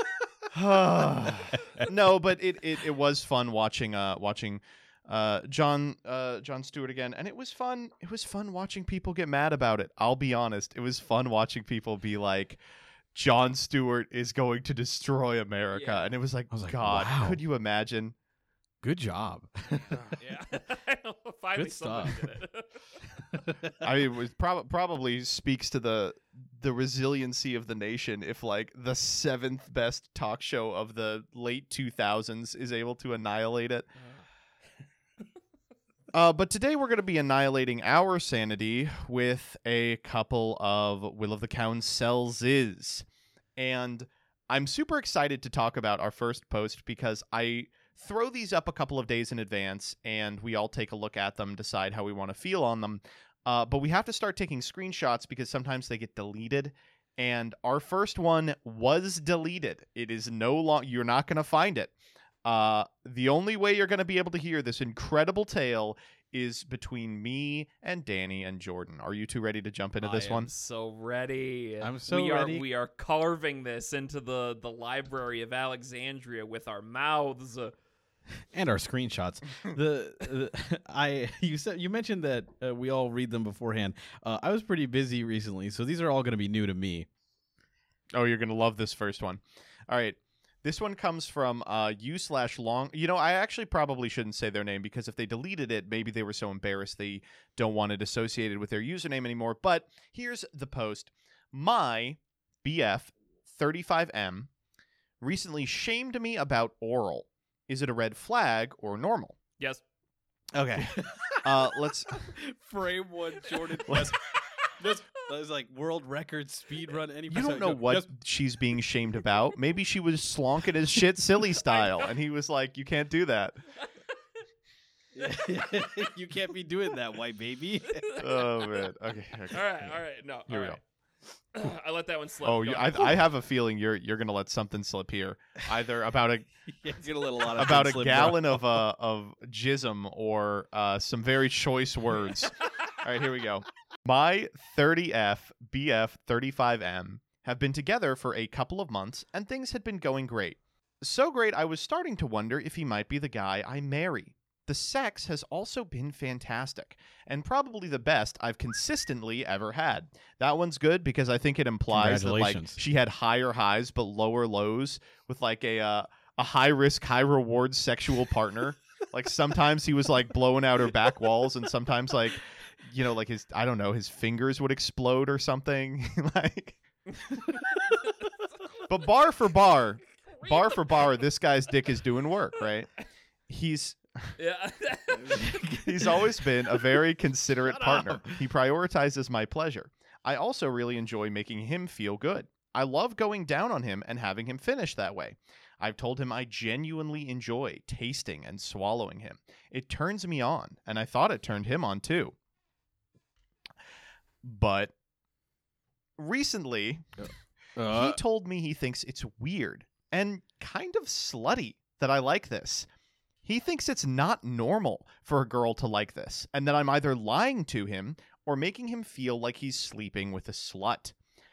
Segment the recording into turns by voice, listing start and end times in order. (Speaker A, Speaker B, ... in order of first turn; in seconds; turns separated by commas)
Speaker A: 0.5-12.6, Speaker B: 1.6-1.9, Speaker A: 13.1-18.1, Speaker C: 15.7-16.1, Speaker B: 16.5-17.4, Speaker B: 18.8-20.0, Speaker C: 20.2-22.9, Speaker B: 21.5-22.2, Speaker B: 23.5-23.7, Speaker A: 23.8-33.9, Speaker A: 36.1-43.0, Speaker A: 43.6-61.9, Speaker A: 62.4-70.5, Speaker C: 70.0-77.7, Speaker B: 71.8-72.6, Speaker B: 78.5-87.1, Speaker A: 88.1-104.5, Speaker A: 105.2-109.4, Speaker B: 110.5-114.2, Speaker A: 111.4-112.3, Speaker A: 113.9-114.1, Speaker B: 114.8-118.1, Speaker A: 117.3-123.6, Speaker C: 121.7-122.1, Speaker B: 125.1-128.0, Speaker C: 128.0-128.8, Speaker A: 128.2-130.8, Speaker C: 129.5-130.8, Speaker C: 131.5-133.2, Speaker A: 132.4-136.5, Speaker B: 136.7-138.8, Speaker A: 137.5-177.5, Speaker B: 161.9-162.8, Speaker C: 177.9-178.9, Speaker A: 178.9-182.9, Speaker C: 180.2-181.0, Speaker A: 183.5-184.3, Speaker C: 184.4-185.8, Speaker A: 185.8-202.3, Speaker B: 187.7-188.4, Speaker A: 204.4-204.9, Speaker A: 206.2-207.0, Speaker B: 207.2-208.2, Speaker A: 207.9-212.9, Speaker A: 213.4-221.1